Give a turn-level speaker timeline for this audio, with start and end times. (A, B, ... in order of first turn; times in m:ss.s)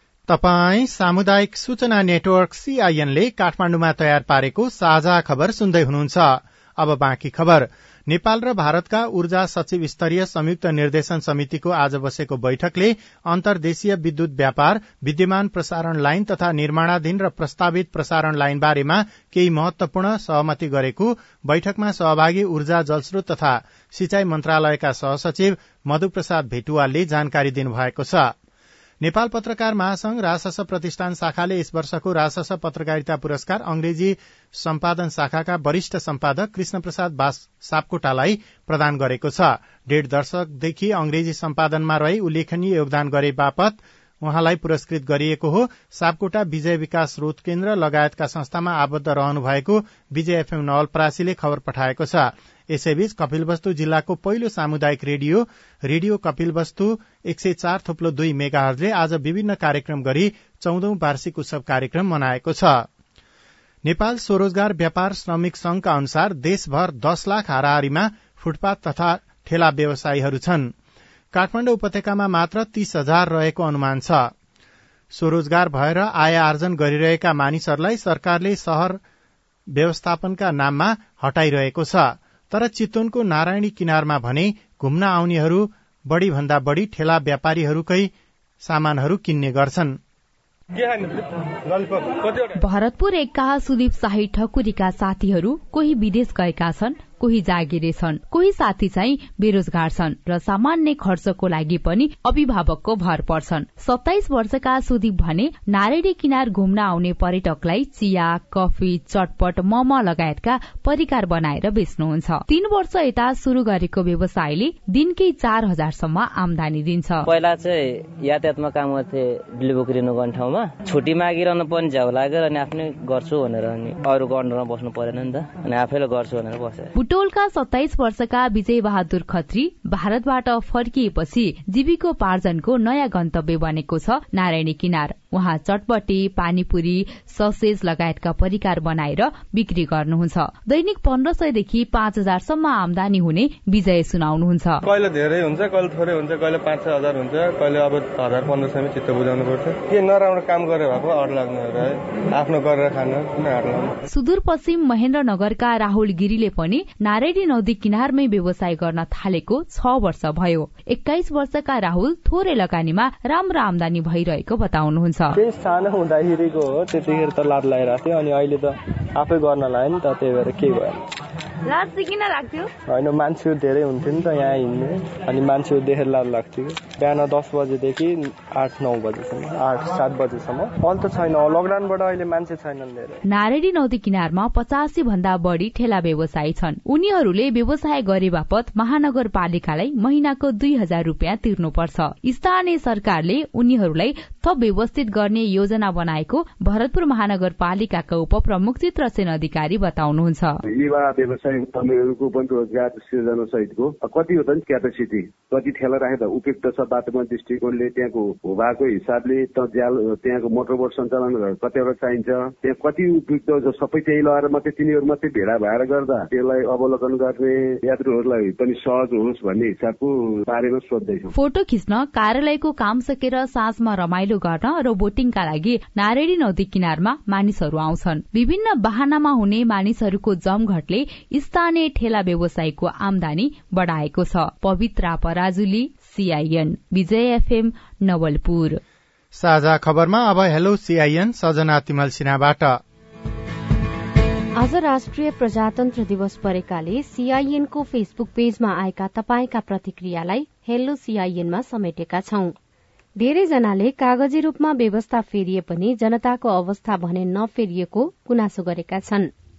0:00.3-0:28.3 A
0:29.0-1:02.9 A
1:03.8-1:10.7 A
1:11.3-1:14.3 A
1:15.1-1:19.0 A
1:19.7-1:30.0 A
1:30.7-1:32.5 B
1:32.6-1:57.3 C
1:57.3-2:06.9 D
2:07.0-2:24.8 C
2:24.8-2:34.0 B
2:34.1-2:45.4 C
2:45.3-2:51.0 E
2:52.9-3:03.2 E
3:03.3-3:20.6 C
3:20.7-3:41.3 F
3:41.3-3:58.8 C
3:59.3-4:02.8 A
4:04.6-4:12.5 G
4:13.2-4:19.3 G